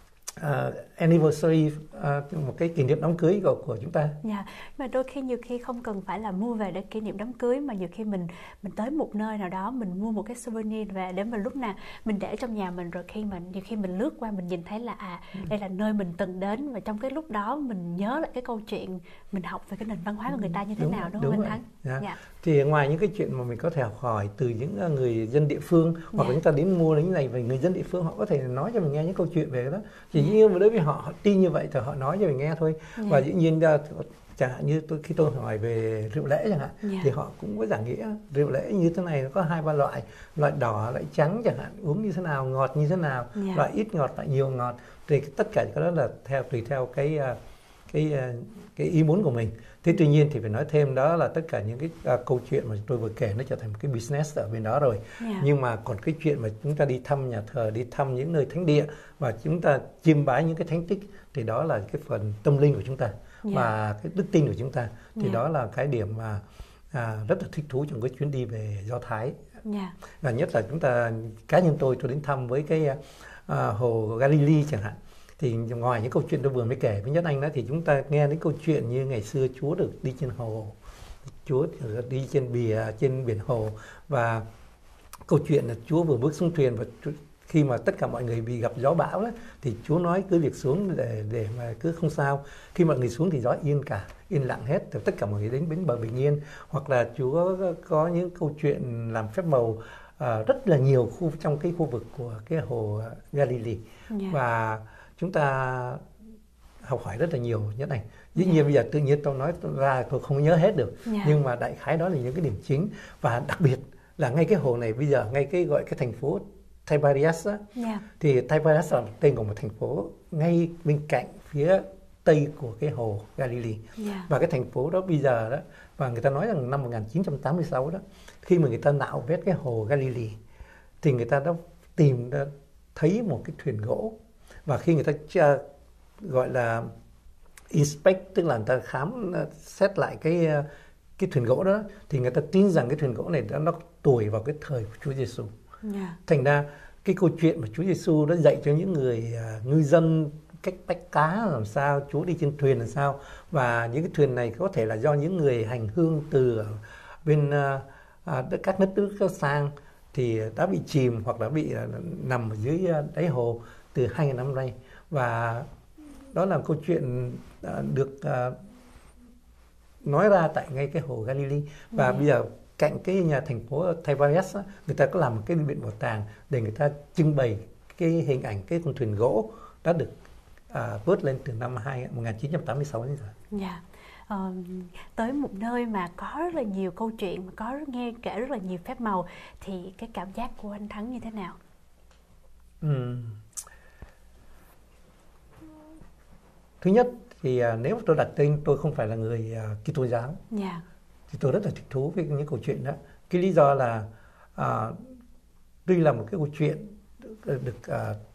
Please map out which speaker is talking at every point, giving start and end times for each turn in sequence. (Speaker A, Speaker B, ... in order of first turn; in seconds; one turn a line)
Speaker A: 0.4-4.2
Speaker B: 4.2-22.2
Speaker A: 20.3-47.4
Speaker B: 26.1-26.4
Speaker B: 33.0-33.2
Speaker B: 36.8-37.1
Speaker B: 43.4-43.6
Speaker A: 47.9-69.4
Speaker B: 55.2-55.5
Speaker B: 65.2-65.4
Speaker B: 69.7-70.0
Speaker A: 70.2-80.8
Speaker A: 81.5-84.4
Speaker A: 85.3-106.0
Speaker B: 104.1-104.4
Speaker A: 106.8-117.6
Speaker B: 108.3-108.6
Speaker B: 111.0-111.4
Speaker B: 117.8-118.0
Speaker A: 118.2-130.4
Speaker B: 124.0-124.3
Speaker A: 131.0-134.2
Speaker A: 134.7-135.6
Speaker A: 136.2-136.9
Speaker A: 137.7-140.7
Speaker A: 141.2-145.5
Speaker B: 145.8-146.2
Speaker A: 146.3-165.7
Speaker A: 166.3-168.6
Speaker A: 170.0-180.1
Speaker B: 171.9-172.3
Speaker A: 180.7-183.3
Speaker B: 183.5-191.6
Speaker A: 192.8-193.4
Speaker A: 196.8-200.4
Speaker B: 200.5-200.8
Speaker A: 201.3-205.1
Speaker A: 205.9-208.2